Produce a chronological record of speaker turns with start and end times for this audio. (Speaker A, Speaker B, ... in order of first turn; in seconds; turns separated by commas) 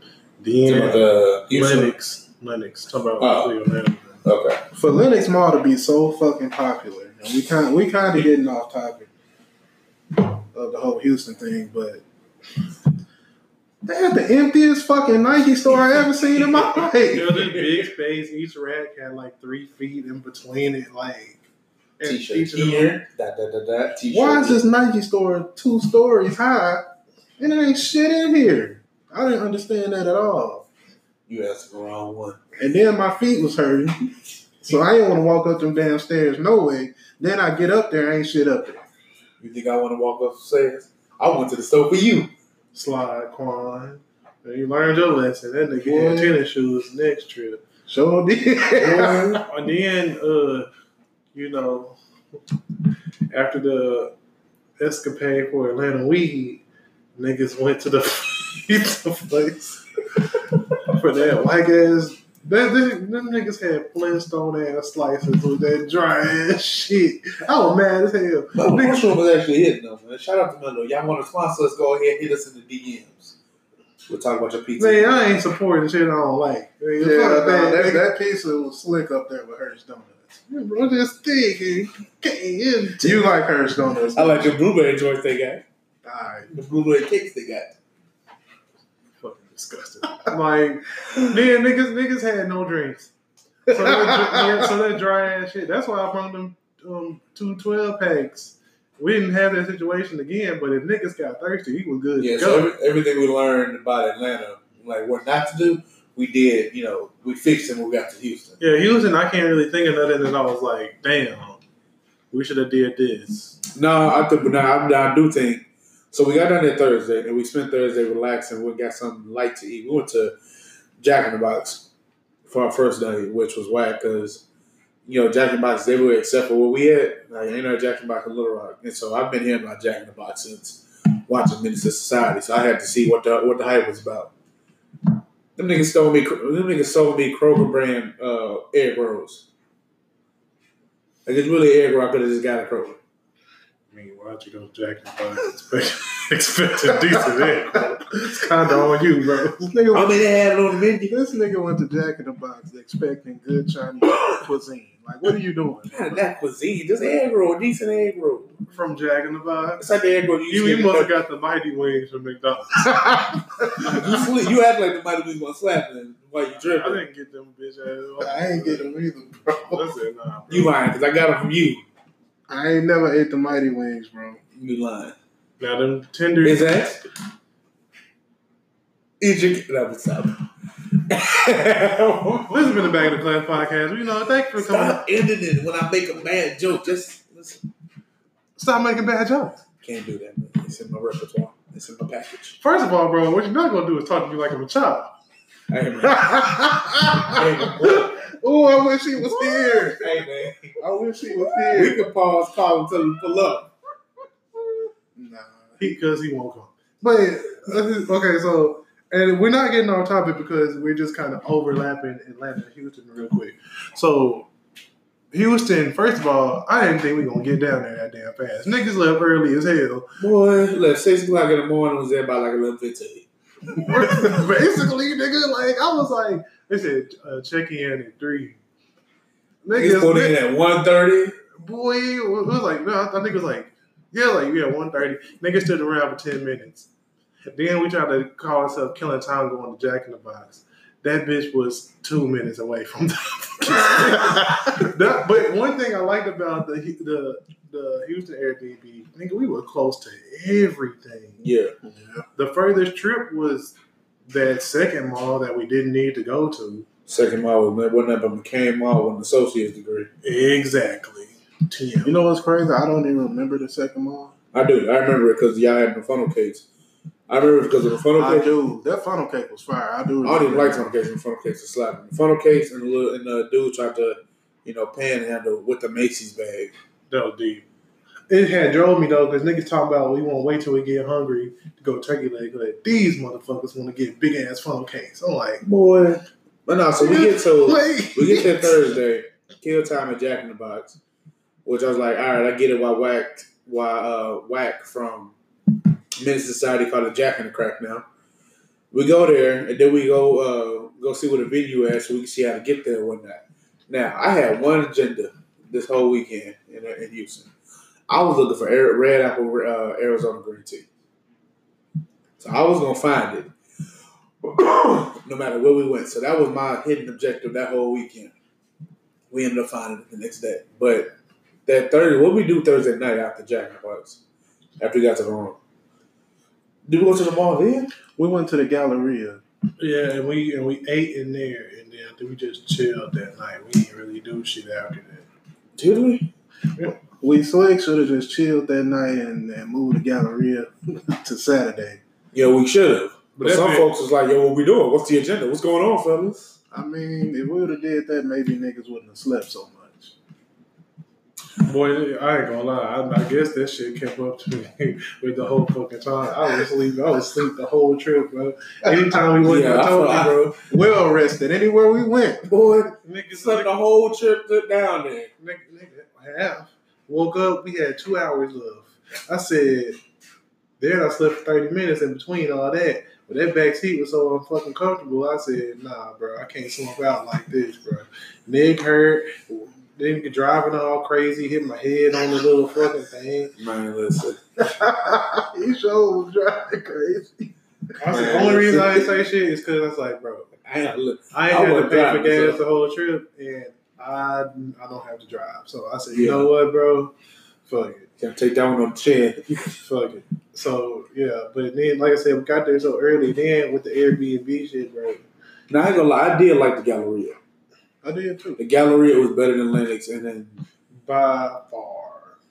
Speaker A: 0.4-4.2, Speaker B: 0.7-1.9, Speaker B: 3.2-3.5, Speaker B: 4.2-4.6, Speaker C: 4.8-9.1, Speaker C: 10.5-12.0, Speaker C: 13.8-17.3, Speaker A: 16.9-21.4, Speaker B: 17.4-17.8, Speaker A: 22.0-22.9, Speaker B: 22.0-24.6, Speaker C: 24.1-26.8, Speaker C: 27.4-30.7, Speaker B: 31.3-32.4, Speaker C: 32.6-38.8, Speaker B: 39.4-42.3, Speaker A: 42.7-47.6, Speaker C: 45.8-46.4, Speaker C: 47.9-49.4, Speaker B: 48.8-49.4, Speaker A: 49.5-50.7, Speaker A: 51.3-52.0, Speaker A: 53.3-54.1, Speaker A: 54.8-56.6, Speaker A: 57.2-59.8, Speaker A: 60.8-69.1, Speaker B: 68.5-73.3, Speaker B: 74.1-75.3, Speaker A: 74.8-78.0, Speaker C: 77.0-80.4, Speaker A: 80.5-83.2, Speaker C: 83.0-84.5, Speaker B: 84.2-85.6, Speaker C: 86.0-86.5, Speaker B: 86.5-87.7, Speaker A: 89.2-93.1, Speaker C: 93.7-94.6, Speaker A: 93.7-102.7, Speaker B: 102.2-108.6, Speaker A: 108.6-111.6, Speaker A: 112.3-113.6, Speaker B: 113.7-120.3, Speaker B: 121.0-121.9, Speaker B: 122.5-124.4, Speaker B: 125.1-134.3, Speaker B: 135.6-139.4, Speaker B: 141.3-143.0, Speaker A: 143.9-149.7, Speaker C: 149.7-150.5, Speaker B: 149.9-151.1, Speaker C: 151.0-156.2, Speaker B: 155.9-158.6, Speaker A: 158.7-159.8, Speaker B: 159.8-161.1, Speaker A: 160.5-164.0, Speaker B: 163.8-167.0, Speaker A: 166.6-168.8, Speaker C: 168.2-169.8, Speaker A: 169.7-170.7, Speaker B: 170.5-171.8, Speaker C: 172.5-174.4, Speaker B: 174.6-175.2, Speaker A: 175.6-176.9, Speaker B: 176.4-177.0, Speaker B: 179.2-180.4, Speaker B: 181.0-182.8, Speaker A: 182.5-185.0, Speaker B: 184.6-187.6, Speaker A: 188.6-189.6, Speaker B: 189.8-192.6, Speaker A: 192.6-195.1, Speaker B: 195.7-196.5, Speaker A: 196.1-197.4, Speaker B: 197.2-198.3, Speaker C: 198.4-200.3, Speaker B: 200.0-200.8, Speaker C: 200.8-202.1, Speaker B: 201.6-203.7, Speaker C: 205.2-206.0, Speaker A: 205.8-214.5, Speaker A: 215.3-220.1, Speaker B: 220.2-223.3, Speaker A: 223.8-228.6, Speaker A: 229.6-230.3, Speaker B: 229.7-231.3, Speaker A: 231.6-236.9, Speaker A: 237.5-251.4, Speaker B: 251.4-251.7, Speaker C: 251.8-252.2, Speaker A: 252.3-253.8, Speaker A: 254.3-256.9, Speaker B: 257.1-260.1, Speaker A: 260.2-262.1, Speaker C: 262.0-264.3, Speaker B: 264.5-266.6, Speaker B: 267.3-268.5, Speaker C: 268.1-270.9, Speaker B: 270.2-276.7, Speaker A: 277.1-277.6, Speaker A: 278.3-285.6, Speaker B: 285.6-291.0, Speaker A: 287.0-288.7, Speaker B: 291.6-295.3, Speaker B: 296.2-298.1, Speaker B: 298.9-307.5, Speaker B: 308.1-310.9, Speaker B: 312.4-313.5, Speaker B: 314.4-318.3, Speaker B: 319.3-321.1, Speaker B: 321.7-324.2, Speaker B: 324.8-325.6, Speaker B: 326.9-327.9, Speaker C: 328.2-329.4, Speaker A: 329.8-335.2, Speaker B: 335.8-336.3, Speaker C: 337.1-342.0, Speaker B: 342.3-346.6, Speaker A: 343.4-343.9, Speaker C: 346.7-350.1, Speaker A: 351.6-360.4, Speaker B: 359.4-360.6, Speaker C: 360.7-362.5, Speaker B: 362.5-365.3, Speaker A: 363.0-363.7, Speaker A: 365.4-370.0, Speaker A: 370.8-383.5, Speaker B: 383.6-384.4, Speaker C: 385.1-387.5, Speaker B: 388.0-389.1, Speaker A: 388.0-390.5, Speaker C: 388.1-388.6, Speaker B: 390.6-392.6, Speaker A: 391.3-397.1, Speaker B: 396.1-396.5, Speaker A: 397.7-398.1, Speaker B: 398.2-399.8, Speaker A: 399.8-405.2, Speaker B: 405.7-407.4, Speaker C: 408.0-408.6, Speaker B: 408.6-410.6, Speaker A: 411.0-412.4